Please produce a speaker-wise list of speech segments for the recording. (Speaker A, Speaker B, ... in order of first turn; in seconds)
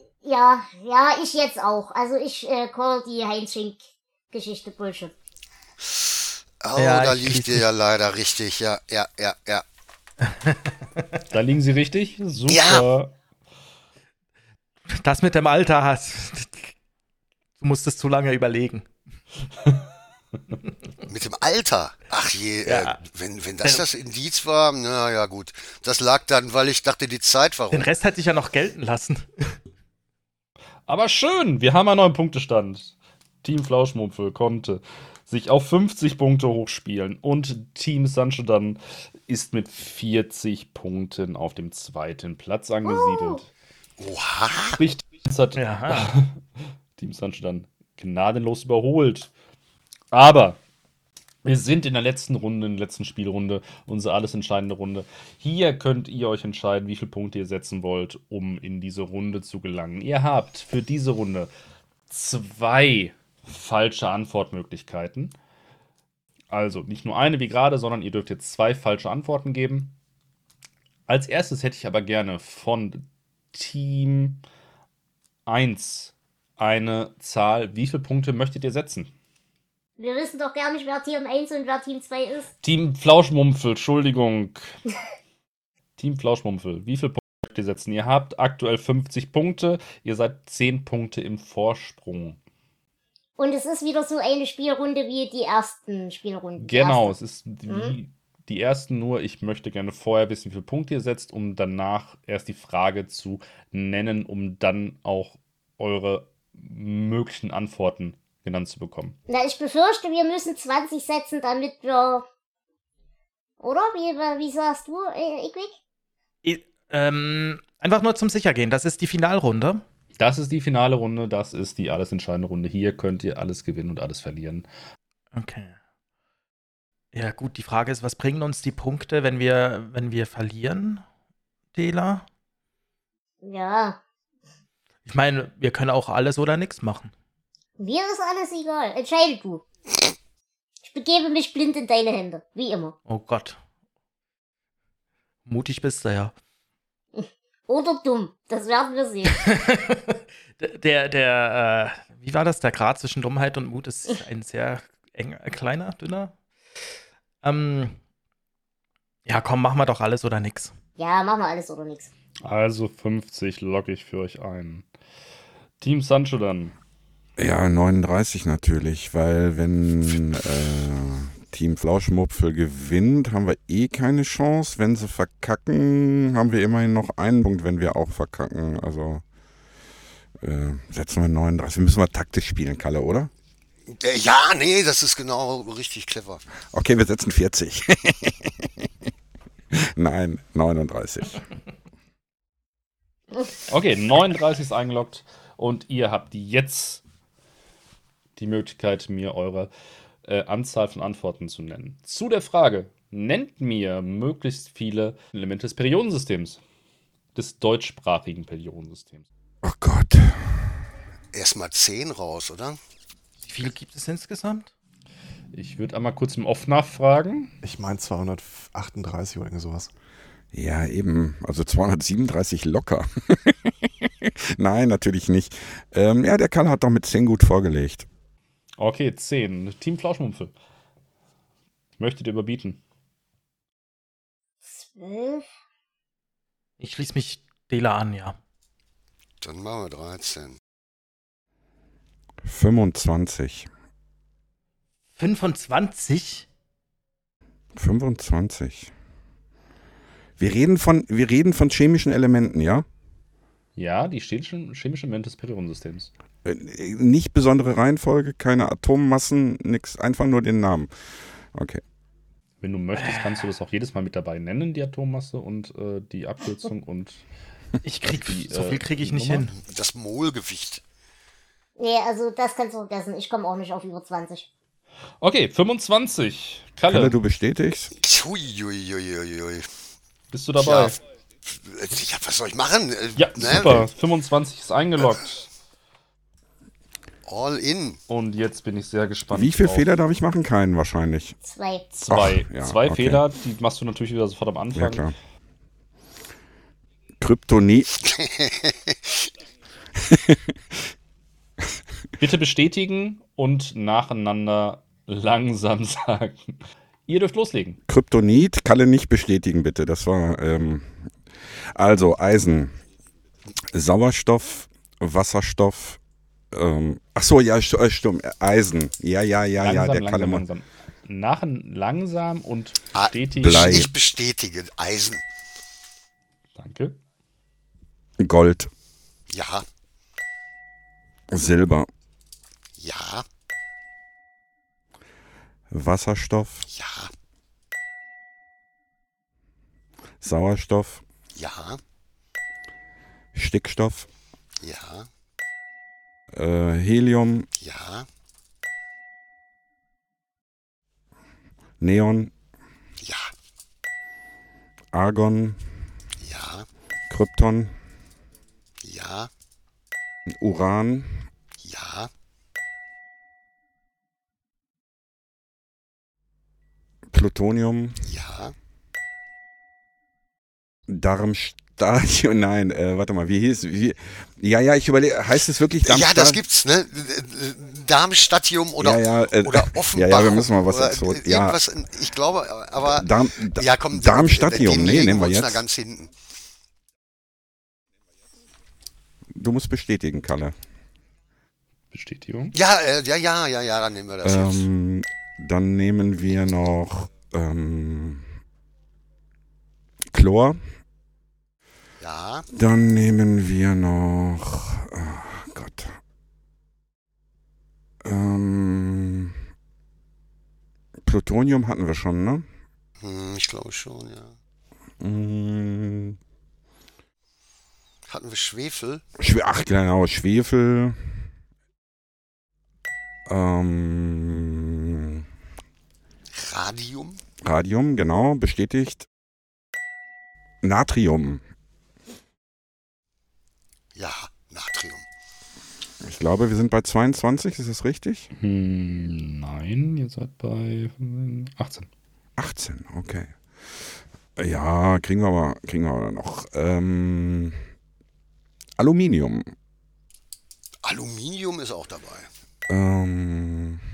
Speaker A: 0.2-3.8, 4.3-5.1, 42.9-43.4, 80.0-82.5, 93.4-97.1, 97.7-98.0, 109.3-112.3, 113.6-115.8, 133.4-134.0, 137.8-139.6, 140.8-142.9, 147.2-149.4, 161.0-162.1, 234.7-235.4, 271.8-274.5, 291.4-291.9
Speaker B: 5.9-9.7, 12.5-12.9, 21.1-27.9, 44.0-44.8, 183.9-186.4, 211.3-212.8, 239.4-240.6, 269.5-270.8, 278.0-279.7, 280.6-283.9, 287.3-288.0, 298.0-299.3, 322.9-325.2, 329.3-329.7, 332.8-333.3, 336.7-337.1, 341.4-341.8, 344.6-345.1, 347.6-348.1, 353.0-353.3, 356.2-356.7, 358.8-359.3, 361.6-362.1, 368.1-368.6, 375.8-386.1, 392.5-394.6, 402.0-402.5, 413.0-414.4, 418.1-419.0, 426.3-427.2, 433.9-435.1, 450.8-452.3
Speaker C: 6.8-7.7, 10.2-11.1, 14.9-16.7, 17.6-18.9, 22.7-23.0, 27.7-29.6, 45.5-46.1, 116.4-119.8, 125.3-125.8, 127.1-131.0, 131.7-132.2, 135.1-137.1, 143.1-143.6, 145.5-146.3, 149.3-156.3, 157.4-158.0, 159.3-160.7, 213.4-214.7, 236.8-238.4, 245.2-246.5, 263.0-263.4, 267.8-269.5
Speaker D: 11.3-13.1, 30.9-43.5, 44.8-46.4, 47.0-49.3, 50.1-50.6, 51.4-61.5, 62.1-65.3, 66.5-70.0, 71.1-74.4, 75.5-79.1, 82.6-84.7, 86.0-92.4, 96.6-109.2, 120.2-124.7, 162.4-164.9, 165.8-166.8, 193.7-197.0, 198.4-199.7, 200.2-206.6, 207.3-209.3, 215.5-217.5, 228.8-230.5, 232.0-232.8, 253.8-256.1, 262.6-267.2, 268.1-269.5, 275.2-277.2, 280.3-281.0, 283.2-285.5, 288.1-289.9, 291.9-295.1, 302.2-306.6, 307.1-307.8, 319.6-323.9, 326.6-327.0, 391.9-392.5, 438.4-441.9
Speaker E: 167.4-179.2, 180.4-183.3, 186.7-188.9, 189.7-191.4, 209.6-210.7, 220.5-228.1, 242.4-243.7, 247.8-248.9, 250.4-252.9, 256.4-260.9, 261.5-261.8, 276.9-277.9, 289.3-291.4, 292.1-293.2, 294.7-295.1, 297.2-297.9, 300.0-300.5, 307.9-310.9, 311.8-312.7, 313.7-316.0, 316.5-320.4, 323.4-323.9, 328.2-328.7, 331.3-331.9, 335.7-336.7, 340.2-341.0, 343.3-344.1, 346.3-347.5, 351.8-352.3, 354.9-355.6, 357.1-357.8, 360.4-361.2, 367.1-368.1, 370.9-376.4, 378.8-381.6, 382.8-385.6, 389.3-390.6, 394.2-398.2, 400.1-400.6, 402.5-406.0, 408.0-409.4, 411.0-412.4, 415.0-416.2, 419.2-421.2, 423.3-425.2, 427.4-429.1, 430.6-431.4, 436.0-438.3, 442.4-443.4, 444.4-447.6, 448.8-449.5, 452.7-453.8
Speaker F: 217.6-219.9